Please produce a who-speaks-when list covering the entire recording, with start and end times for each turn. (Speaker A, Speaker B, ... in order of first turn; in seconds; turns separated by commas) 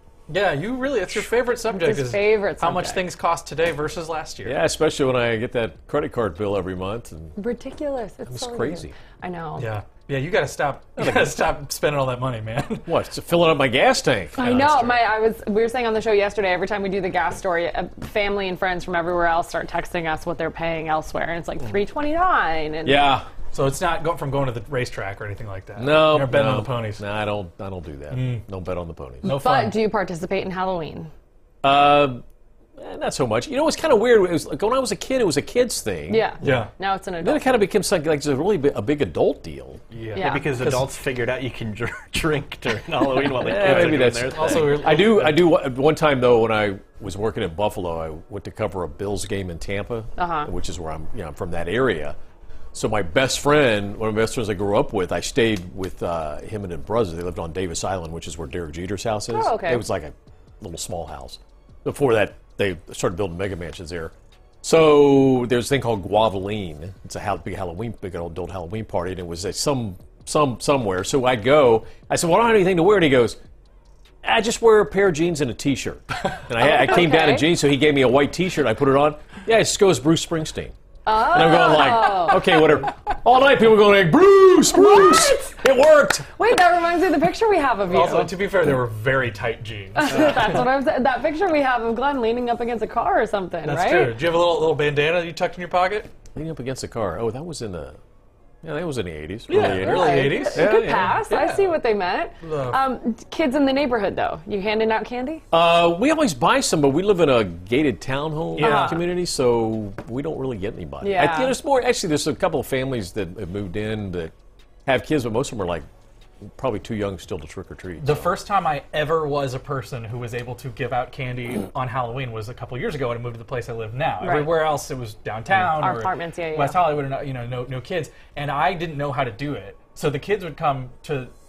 Speaker A: 0.3-4.6, Speaker B: 1.7-3.0, Speaker C: 4.4-7.3, Speaker B: 7.4-9.7, Speaker C: 8.3-8.9, Speaker A: 9.6-12.9, Speaker C: 11.0-11.3, Speaker C: 12.9-15.0, Speaker B: 14.3-23.2, Speaker C: 22.8-23.3, Speaker A: 23.5-27.0, Speaker C: 25.8-29.3, Speaker A: 28.1-28.4, Speaker A: 29.2-29.8, Speaker B: 29.2-31.1, Speaker C: 31.6-32.2, Speaker C: 32.8-36.6, Speaker B: 36.1-37.7, Speaker A: 36.4-36.7, Speaker C: 37.2-39.8, Speaker A: 39.9-40.9, Speaker B: 40.1-40.5, Speaker D: 40.2-45.1, Speaker C: 43.3-52.1, Speaker A: 43.6-45.4, Speaker B: 50.2-50.5, Speaker C: 52.7-73.4, Speaker B: 59.3-59.9, Speaker C: 74.2-86.3, Speaker B: 76.6-77.5, Speaker B: 81.1-82.6, Speaker B: 84.7-85.6, Speaker B: 86.3-88.4, Speaker A: 87.9-90.6, Speaker B: 90.0-94.2, Speaker A: 93.7-96.1, Speaker C: 96.3-98.0, Speaker C: 98.6-101.2, Speaker A: 99.5-101.8, Speaker B: 99.6-105.4, Speaker A: 102.4-102.8, Speaker C: 105.5-114.3, Speaker A: 108.6-109.0, Speaker B: 108.6-109.0, Speaker B: 111.0-111.6, Speaker C: 114.9-115.8, Speaker C: 116.5-118.3, Speaker A: 118.0-131.3, Speaker B: 124.2-124.7, Speaker B: 125.6-126.9